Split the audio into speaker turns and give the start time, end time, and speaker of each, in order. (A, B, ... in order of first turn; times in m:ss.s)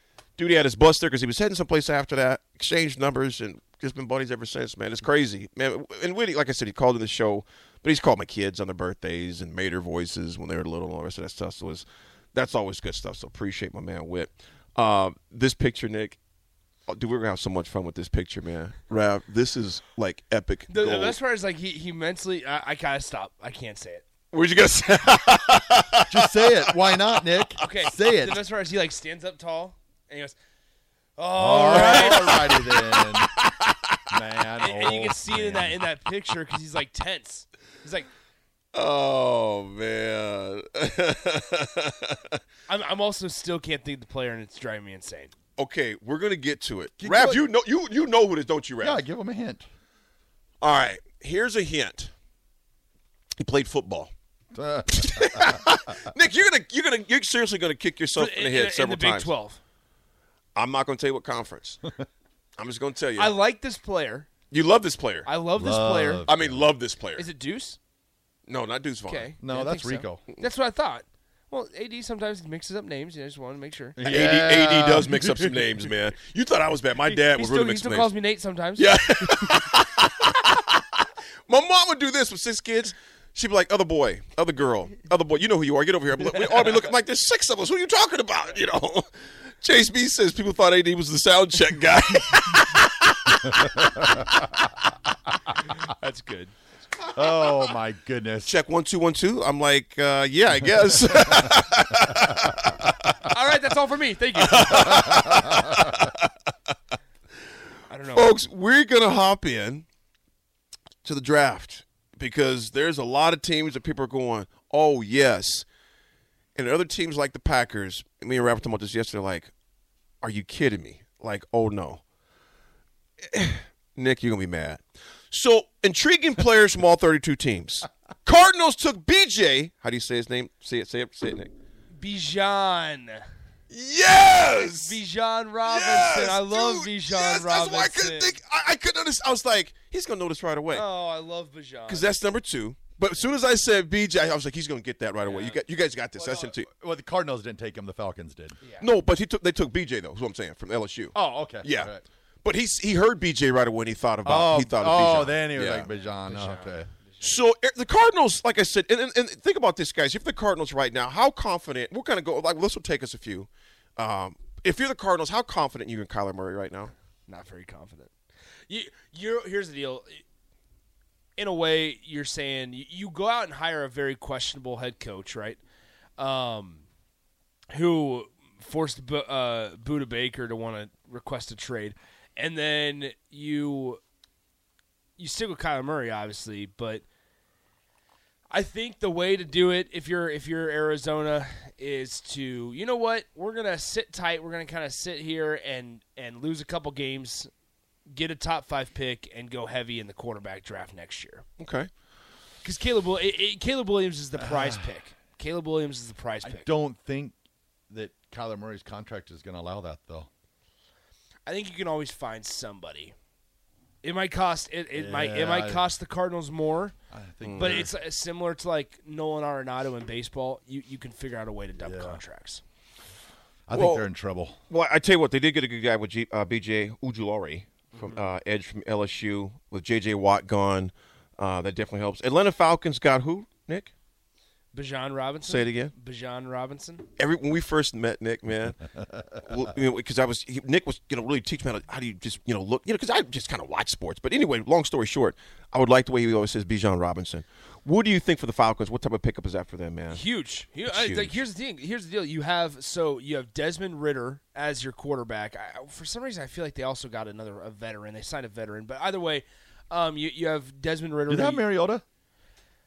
0:00.4-0:16.2 A
0:16.9-0:21.2 A
0:20.7-0:24.0 B
0:24.3-0:27.5 A
0:26.1-0:28.4 C
0:27.6-0:30.4 B
0:31.2-0:32.4 B
0:31.3-0:33.3 C
0:31.7-0:33.7 A
0:34.1-0:35.9 C
0:34.6-0:38.1 B
0:38.7-0:42.4 A
0:42.7-0:45.3 B
0:45.6-0:49.0 A
0:47.0-0:47.5 C
0:48.8-0:49.7 C
0:50.6-0:52.1 A
0:53.4-0:54.1 A
0:54.5-0:55.6 C
0:54.9-0:59.4 A
0:58.2-0:59.6 B
1:00.6-1:01.8 A
1:02.6-1:03.4 A
1:03.2-1:04.3 B
1:04.5-1:05.3 A
1:05.3-1:06.2 B
1:05.6-1:06.7 C
1:06.3-1:07.3 A
1:07.2-1:07.8 B
1:08.5-1:09.3 A
1:09.1-1:14.0 B
1:09.4-1:10.2 C
1:14.0-1:15.5 C
1:14.0-1:18.2 A
1:17.1-1:19.5 B
1:18.8-1:29.1 A
1:29.6-1:34.2 A
1:33.5-1:34.6 C
1:35.7-1:36.5 B
1:37.2-1:38.6 C
1:37.2-1:37.4 A
1:38.4-1:43.2 A
1:42.1-1:42.6 C
1:43.3-1:45.1 B
1:44.4-1:46.3 A
1:45.4-1:45.8 C
1:47.9-1:48.3 B
1:48.1-1:49.9 A
1:51.0-1:55.7 A
1:56.6-1:59.5 A
2:00.2-2:02.0 A
2:03.3-2:11.5 A
2:12.0-2:13.2 B
2:13.7-2:15.0 A
2:14.5-2:18.3 B
2:15.6-2:20.9 A
2:20.7-2:22.2 B
2:21.9-2:26.7 A
2:25.2-2:25.6 B
2:26.2-2:28.6 C
2:28.8-2:31.9 A
2:31.1-2:32.0 C
2:32.4-2:35.9 A
2:34.2-2:36.9 C
2:36.0-2:37.3 B
2:37.2-2:46.9 A
2:47.3-2:48.1 B
2:48.7-2:50.2 B
2:51.4-2:55.6 B
2:56.2-2:56.8 B
2:57.7-3:04.0 B
3:05.2-3:07.0 B
3:08.5-3:17.5 B
3:18.2-3:21.4 B
3:21.6-3:21.9 A
3:22.6-3:26.6 B
3:24.4-3:25.0 C
3:26.4-3:27.4 C
3:27.9-3:30.3 C
3:31.5-3:33.1 B
3:34.0-3:36.9 B
3:34.9-3:35.9 C
3:37.1-3:38.0 C
3:37.4-3:37.9 A
3:37.6-3:42.6 B
3:41.8-3:42.2 C
3:43.7-3:44.6 C
3:43.7-3:44.1 A
3:44.7-3:53.9 A
3:54.7-3:57.0 B
3:55.4-3:55.9 A
3:57.2-4:10.2 A
4:10.1-4:21.6 B
4:10.8-4:11.4 A
4:21.3-4:22.0 C